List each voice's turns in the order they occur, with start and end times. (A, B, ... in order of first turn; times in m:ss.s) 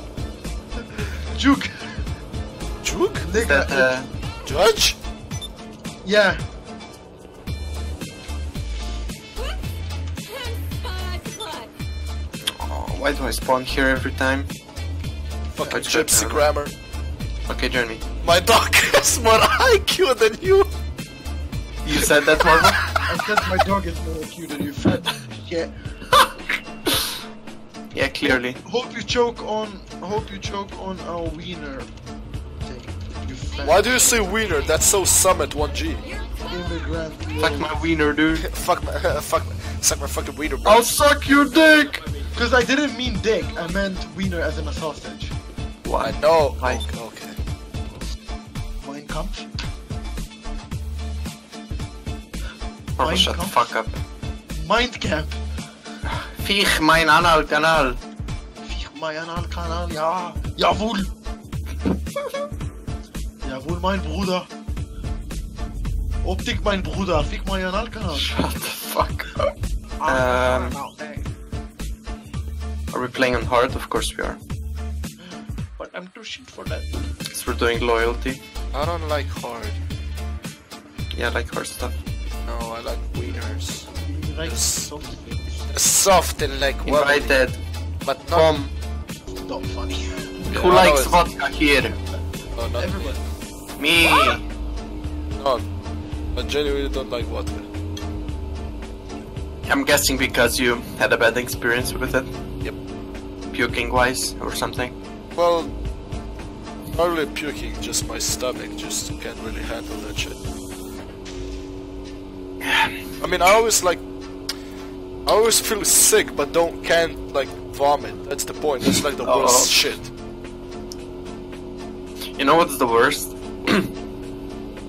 0:01.0-0:02.0 A
0:02.8-0:03.3 B
0:03.2-0:03.9 A
0:03.3-0:04.1 C
0:04.4-0:05.0 B
0:06.0-0:06.4 A
0:12.5-0:14.5 C
0:15.5-0:16.7 B
0:15.6-0:15.9 A
0:15.6-0:16.5 C
0:17.5-0:18.0 C
0:18.2-0:20.7 B
0:21.8-0:22.8 C
0:23.0-0:25.7 A
0:27.9-0:28.6 C
0:28.2-0:31.9 A
0:32.6-0:34.4 A
0:33.6-0:36.1 B
0:36.5-0:37.8 A
0:37.4-0:38.4 C
0:38.4-0:41.0 B
0:40.6-0:42.0 C
0:42.3-0:45.3 A
0:45.8-0:46.8 C
0:46.0-0:47.4 B
0:48.8-0:49.5 A
0:53.0-0:54.0 C
0:53.0-0:53.7 A
0:54.5-0:55.4 A
0:56.0-0:58.0 C
0:58.6-1:01.1 A
1:03.4-1:04.5 A
1:06.2-1:08.3 A
1:08.1-1:09.5 C
1:10.0-1:11.3 A
1:10.0-1:10.8 C
1:12.9-1:14.4 C
1:15.2-1:16.9 A
1:17.3-1:18.4 C
1:18.7-1:19.8 B
1:21.1-1:22.0 C
1:22.4-1:23.9 B
1:24.0-1:25.7 A
1:24.4-1:24.9 B
1:25.7-1:27.4 B
1:26.8-1:27.6 C
1:28.0-1:28.5 B
1:28.3-1:28.7 C
1:29.4-1:30.7 A
1:30.5-1:31.2 B
1:30.5-1:32.0 C
1:32.5-1:33.2 B
1:32.7-1:33.2 A
1:33.8-1:34.4 C
1:34.1-1:34.4 A
1:35.4-1:35.7 B
1:36.3-1:37.7 B
1:39.6-1:42.3 C
1:43.5-1:45.0 C
1:45.3-1:45.7 B
1:46.9-1:50.4 B
1:52.6-1:53.0 C
1:53.2-1:54.0 B
1:55.2-2:00.1 B
1:59.2-1:59.8 C
2:02.3-2:03.9 C